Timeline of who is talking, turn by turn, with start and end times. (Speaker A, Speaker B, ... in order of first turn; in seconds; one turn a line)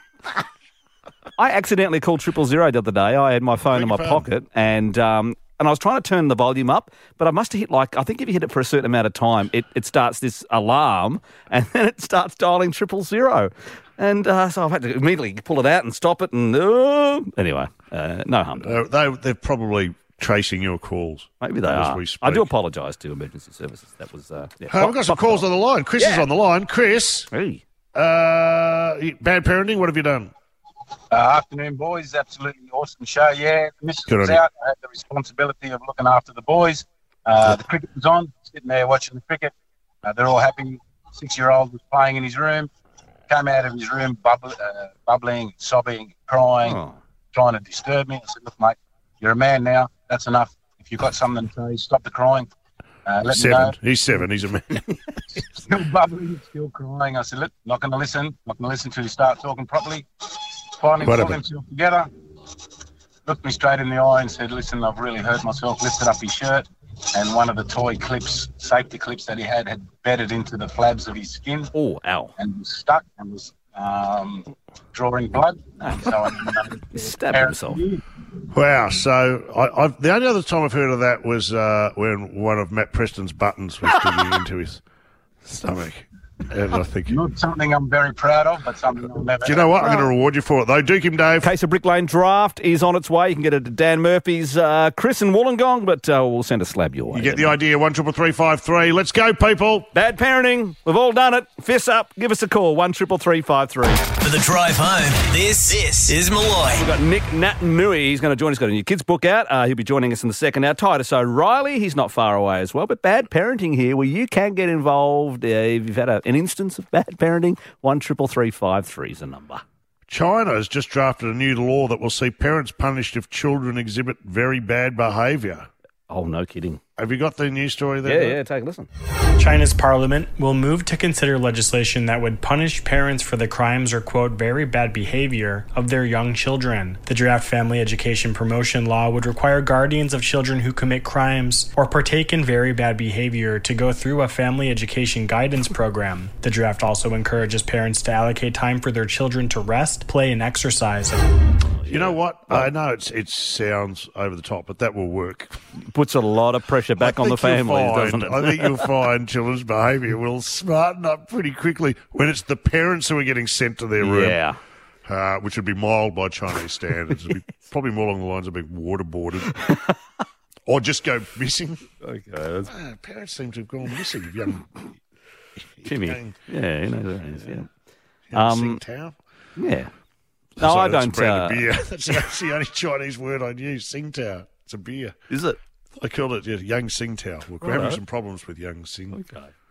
Speaker A: 1.4-18.8
Speaker B: 3.7-4.2
Speaker B: 18.6-22.5
Speaker A: 21.4-25.4
Speaker B: 24.7-27.3
Speaker A: 26.0-26.2
Speaker A: 27.3-27.6
Speaker B: 27.9-30.3
Speaker C: 31.1-39.5
Speaker B: 34.1-34.4
Speaker C: 40.0-42.7
Speaker C: 43.3-46.8
Speaker A: 46.6-47.0
Speaker C: 47.3-52.5
Speaker C: 53.0-53.7
Speaker B: 53.3-54.8
Speaker C: 55.5-60.1
Speaker C: 60.8-62.1
Speaker B: 61.0-61.4
Speaker C: 63.2-71.7
Speaker A: 71.7-72.3
Speaker C: 72.4-78.0
Speaker A: 75.8-76.1
Speaker A: 76.9-77.8
Speaker B: 78.5-84.8
Speaker B: 85.5-87.2
Speaker C: 87.1-90.1
Speaker B: 89.4-91.5
Speaker A: 91.4-97.5
Speaker B: 97.1-99.9
Speaker A: 99.9-104.0
Speaker D: 104.2-106.8
Speaker A: 106.7-119.6
Speaker B: 120.1-125.7
Speaker A: 126.1-126.8
Speaker B: 127.0-128.4
Speaker A: 128.1-128.9
Speaker E: 129.4-151.2
Speaker A: 151.8-152.7
Speaker B: 151.9-155.6
Speaker A: 155.9-158.8
Speaker B: 157.0-164.4
Speaker A: 164.0-164.6
Speaker B: 165.1-169.6
Speaker B: 170.7-171.8
Speaker A: 172.0-172.7
Speaker B: 172.7-174.7
Speaker B: 175.8-176.3
Speaker A: 175.8-177.7
Speaker B: 178.3-179.1
Speaker A: 178.3-178.8
Speaker A: 179.6-179.9
Speaker B: 180.6-185.2
Speaker A: 180.6-181.6
Speaker A: 185.3-185.6
Speaker B: 186.0-189.2
Speaker A: 187.6-188.0
Speaker A: 189.1-189.5